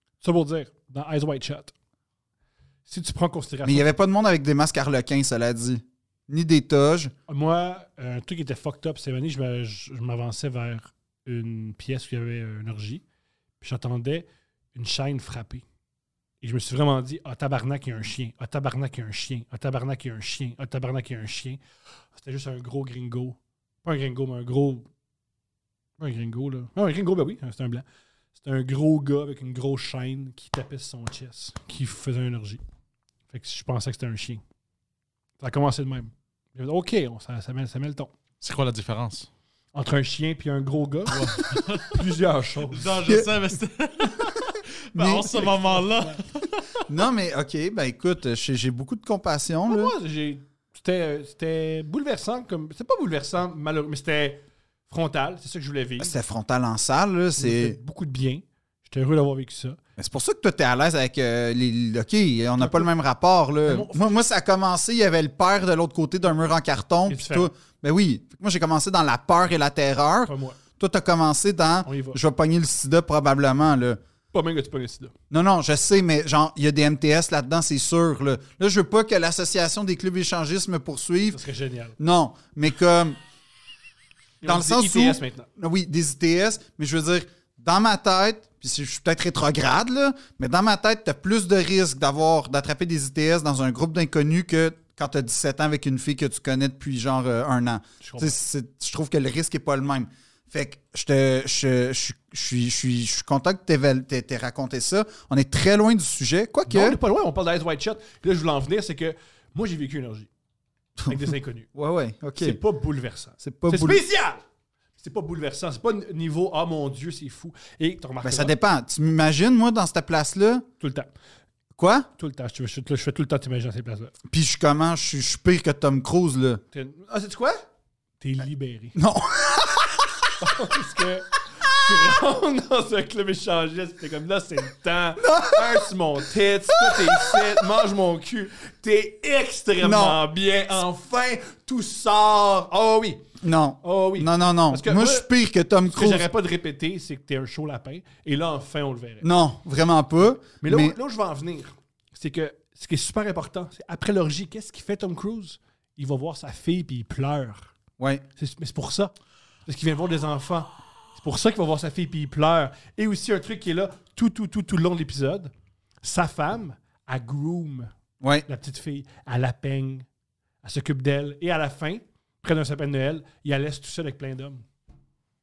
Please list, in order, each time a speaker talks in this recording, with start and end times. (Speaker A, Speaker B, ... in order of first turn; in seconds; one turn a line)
Speaker A: 0.2-1.7
Speaker A: 2.9-3.9
Speaker B: 3.6-7.1
Speaker A: 7.3-13.0
Speaker A: 13.6-15.6
Speaker A: 16.4-21.6
Speaker A: 22.2-24.9
Speaker A: 26.0-27.9
Speaker A: 28.4-32.6
Speaker A: 33.3-34.4
Speaker A: 35.4-38.1
Speaker C: 38.4-39.3
Speaker A: 39.7-43.0
Speaker C: 41.1-42.0
Speaker C: 42.7-46.9
Speaker B: 45.0-45.5
Speaker A: 45.2-46.2
Speaker B: 46.9-49.9
Speaker A: 49.7-56.1
Speaker B: 56.0-57.8
Speaker A: 57.4-59.8
Speaker B: 60.0-74.0
Speaker A: 62.6-62.9
Speaker A: 63.6-64.1
Speaker A: 67.1-67.5
Speaker A: 70.3-70.6
Speaker A: 71.8-72.2
Speaker A: 74.3-75.1
Speaker B: 75.3-81.4
Speaker A: 81.3-82.0
Speaker B: 82.0-83.2
Speaker A: 84.4-85.5
Speaker B: 84.4-107.0
Speaker A: 98.0-98.4
Speaker A: 106.7-110.3
Speaker B: 111.0-112.6
Speaker A: 111.1-111.7
Speaker A: 112.4-114.4
Speaker B: 113.4-114.0
Speaker A: 115.0-118.5
Speaker B: 118.2-120.7
Speaker A: 120.8-121.1
Speaker B: 121.8-122.1
Speaker A: 122.2-124.1
Speaker B: 124.3-126.6
Speaker A: 126.7-127.7
Speaker A: 128.2-129.0
Speaker B: 128.9-130.3
Speaker A: 130.4-143.2
Speaker B: 135.2-135.9
Speaker B: 136.8-137.4
Speaker B: 139.8-140.2
Speaker B: 143.4-146.3
Speaker A: 143.8-145.3
Speaker A: 145.8-149.3
Speaker B: 149.2-151.0
Speaker A: 150.6-157.7
Speaker B: 158.0-158.2
Speaker A: 158.4-159.1
Speaker A: 159.7-165.5
Speaker A: 166.0-167.9
Speaker B: 168.2-168.5
Speaker A: 168.5-170.1
Speaker A: 170.6-174.6